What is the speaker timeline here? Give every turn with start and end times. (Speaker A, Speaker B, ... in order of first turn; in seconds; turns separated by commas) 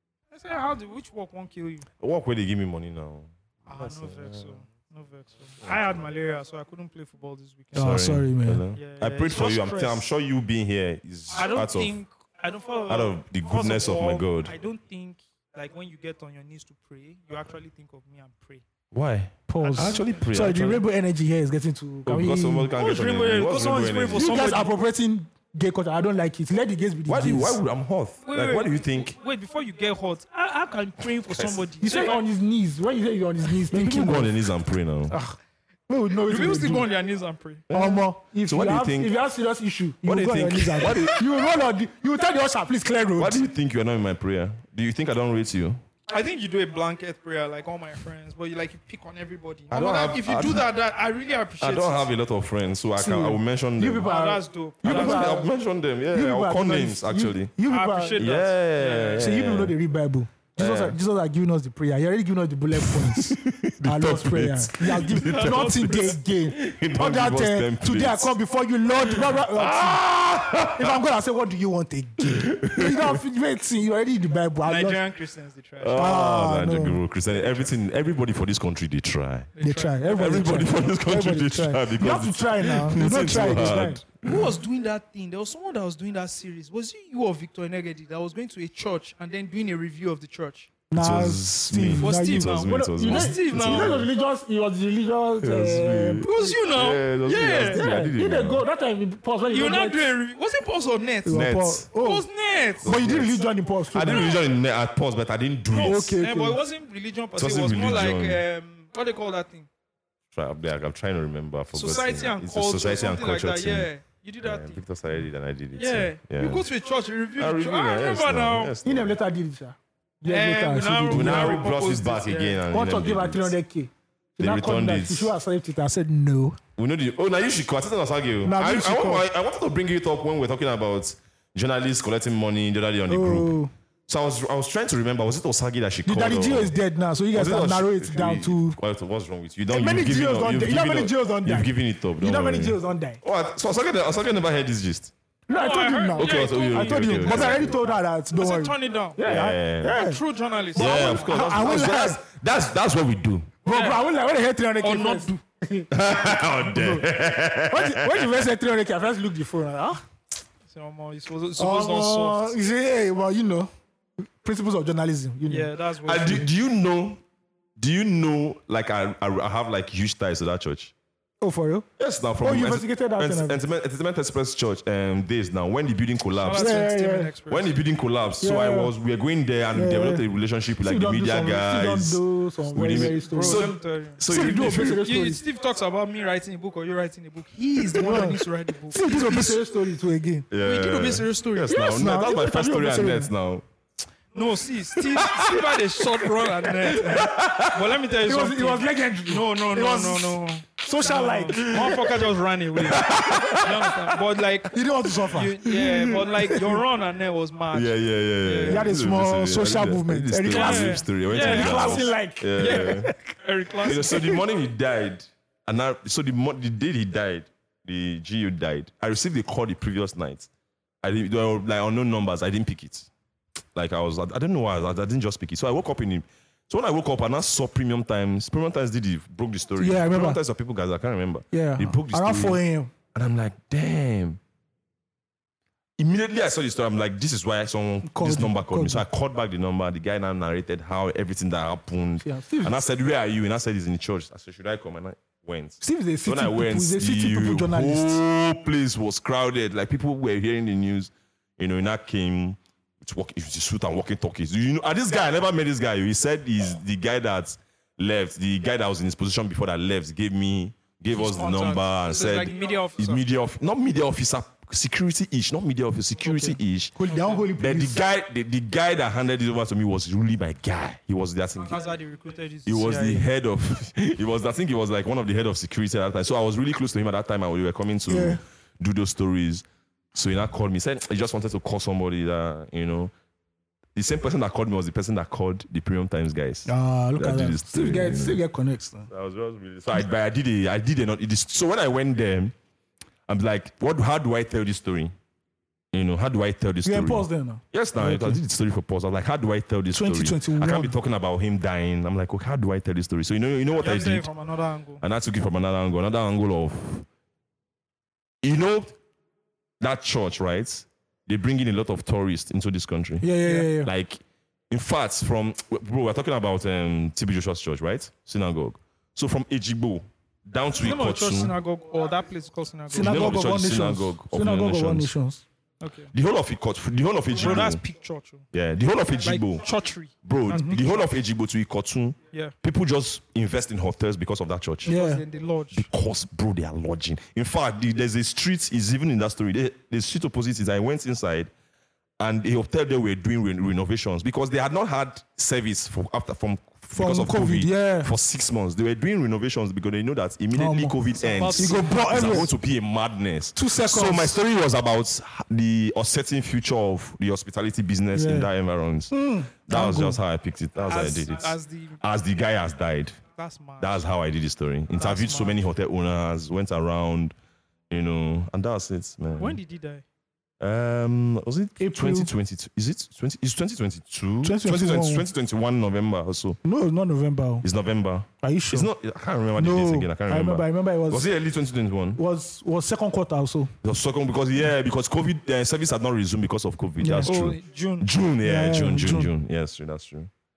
Speaker A: 0.3-1.9, Speaker B: 2.0-4.6, Speaker A: 3.7-8.1, Speaker B: 5.6-5.9, Speaker C: 7.7-8.6, Speaker B: 7.7-11.9, Speaker A: 8.7-10.1, Speaker A: 11.3-18.6, Speaker B: 12.9-14.5, Speaker B: 18.9-20.8, Speaker C: 19.5-22.7, Speaker A: 19.6-20.3, Speaker B: 22.1-24.5, Speaker A: 22.7-24.7, Speaker C: 24.1-27.6, Speaker B: 27.1-29.1, Speaker A: 28.2-32.2, Speaker B: 31.3-31.7, Speaker C: 31.8-34.3, Speaker B: 33.7-35.1, Speaker C: 35.1-36.9, Speaker A: 36.2-37.7, Speaker B: 37.7-39.1, Speaker C: 37.7-43.4, Speaker B: 40.0-41.3, Speaker B: 43.2-45.8, Speaker A: 46.1-52.1, Speaker B: 49.7-50.7, Speaker B: 51.6-54.1, Speaker C: 53.0-55.5, Speaker A: 54.0-55.4, Speaker B: 54.8-57.5, Speaker C: 56.1-58.2, Speaker A: 57.6-59.3, Speaker B: 58.2-59.8, Speaker C: 59.2-75.0, Speaker B: 60.5-61.0, Speaker B: 62.7-68.3, Speaker A: 65.0-66.2, Speaker B: 69.0-71.0, Speaker B: 72.3-73.2, Speaker A: 74.6-76.1, Speaker B: 75.8-79.5, Speaker C: 75.9-77.0, Speaker A: 77.3-77.7, Speaker A: 79.5-80.3, Speaker C: 79.6-84.0, Speaker B: 80.1-84.5, Speaker A: 84.2-90.7, Speaker C: 90.9-96.5, Speaker B: 91.0-94.1, Speaker A: 92.0-94.0, Speaker B: 95.4-98.6, Speaker A: 96.2-97.8, Speaker C: 97.7-100.0, Speaker A: 99.5-102.9, Speaker C: 101.2-102.2, Speaker B: 101.3-101.8, Speaker B: 102.8-106.2, Speaker C: 102.8-104.3, Speaker A: 104.1-104.4, Speaker A: 105.7-109.7, Speaker C: 105.8-106.6, Speaker B: 107.3-108.4, Speaker B: 110.3-113.9, Speaker A: 111.7-114.8, Speaker B: 114.4-116.7, Speaker A: 115.7-118.7, Speaker B: 117.4-119.1, Speaker C: 118.8-121.6, Speaker A: 120.2-122.7, Speaker B: 121.1-123.5, Speaker C: 122.7-126.6, Speaker B: 124.4-125.3, Speaker B: 126.8-133.6, Speaker C: 128.4-129.2, Speaker C: 133.1-133.7, Speaker B: 134.1-136.7, Speaker C: 136.1-138.8, Speaker B: 137.3-145.1, Speaker C: 139.7-143.2, Speaker C: 145.5-150.2, Speaker A: 145.5-149.2, Speaker B: 146.2-147.8, Speaker B: 149.2-150.0, Speaker A: 149.9-151.9, Speaker C: 150.8-152.2, Speaker B: 150.8-153.5, Speaker C: 153.6-157.0, Speaker A: 153.7-154.0, Speaker A: 154.8-155.4, Speaker B: 155.9-158.5, Speaker C: 157.7-160.0, Speaker A: 160.7-162.5, Speaker C: 161.6-163.7, Speaker C: 164.2-165.7, Speaker A: 165.5-166.5, Speaker B: 166.0-167.2, Speaker B: 167.8-170.9, Speaker C: 171.4-171.9, Speaker B: 172.0-176.8, Speaker C: 172.4-173.6, Speaker A: 176.4-177.7, Speaker C: 176.5-177.3, Speaker B: 177.5-185.1, Speaker C: 178.4-178.9, Speaker C: 179.7-180.2, Speaker C: 180.8-183.7, Speaker A: 182.8-189.6, Speaker C: 184.3-185.4, Speaker C: 187.9-190.5, Speaker B: 190.5-193.6, Speaker A: 190.6-191.8, Speaker C: 191.7-193.3, Speaker A: 194.3-204.8, Speaker B: 195.0-195.6, Speaker B: 196.7-197.8, Speaker C: 198.2-202.2, Speaker B: 201.5-202.1, Speaker B: 202.8-203.9, Speaker C: 203.3-203.7, Speaker C: 204.7-205.6, Speaker A: 205.3-208.9, Speaker C: 206.2-206.8, Speaker B: 207.7-213.1, Speaker C: 208.7-213.3, Speaker A: 210.5-214.3, Speaker B: 213.8-220.5, Speaker C: 214.0-214.4, Speaker B: 221.0-223.1, Speaker B: 223.7-232.6, Speaker C: 229.8-230.4, Speaker C: 231.5-232.9, Speaker B: 233.1-234.4, Speaker B: 236.0-266.9, Speaker C: 238.1-239.0, Speaker C: 242.2-242.8, Speaker C: 245.8-248.2, Speaker A: 261.1-263.2, Speaker A: 266.2-266.6, Speaker C: 266.9-268.0, Speaker A: 267.1-267.5, Speaker B: 267.6-271.8, Speaker A: 271.6-273.3, Speaker B: 272.6-283.1, Speaker C: 278.1-278.4, Speaker B: 283.9-288.4, Speaker C: 286.6-289.1, Speaker B: 289.1-292.5, Speaker B: 293.3-295.1, Speaker B: 295.9-304.3, Speaker C: 296.8-298.4, Speaker C: 299.9-300.9, Speaker A: 303.8-305.0, Speaker B: 305.0-307.1, Speaker B: 308.4-308.9, Speaker B: 309.8-321.5, Speaker C: 313.2-313.9, Speaker A: 313.4-313.7, Speaker A: 320.7-323.5, Speaker C: 322.9-325.4, Speaker B: 322.9-325.1, Speaker A: 325.8-326.1, Speaker B: 326.1-327.8, Speaker A: 327.3-328.4, Speaker B: 328.5-329.7, Speaker A: 329.2-331.1, Speaker B: 330.2-334.9, Speaker C: 330.5-330.8, Speaker A: 334.8-335.9, Speaker C: 334.9-335.2, Speaker B: 335.7-341.5, Speaker B: 342.2-359.1, Speaker C: 346.9-348.1, Speaker C: 350.5-350.9, Speaker A: 351.1-352.5, Speaker C: 351.5-352.5, Speaker C: 353.5-354.4, Speaker C: 358.1-358.5, Speaker C: 359.1-360.2, Speaker B: 359.7-363.2, Speaker A: 360.8-362.0, Speaker A: 363.3-364.0, Speaker B: 363.8-367.3, Speaker A: 364.9-365.6, Speaker B: 367.9-369.6, Speaker A: 369.4-370.0, Speaker B: 370.6-376.6, Speaker C: 371.8-372.3, Speaker C: 374.4-375.2, Speaker C: 376.6-377.6, Speaker B: 377.6-382.2, Speaker C: 378.4-378.9, Speaker C: 379.6-381.2, Speaker C: 382.1-383.7, Speaker B: 383.8-390.3, Speaker C: 387.0-387.4, Speaker A: 387.2-388.1, Speaker C: 388.4-389.3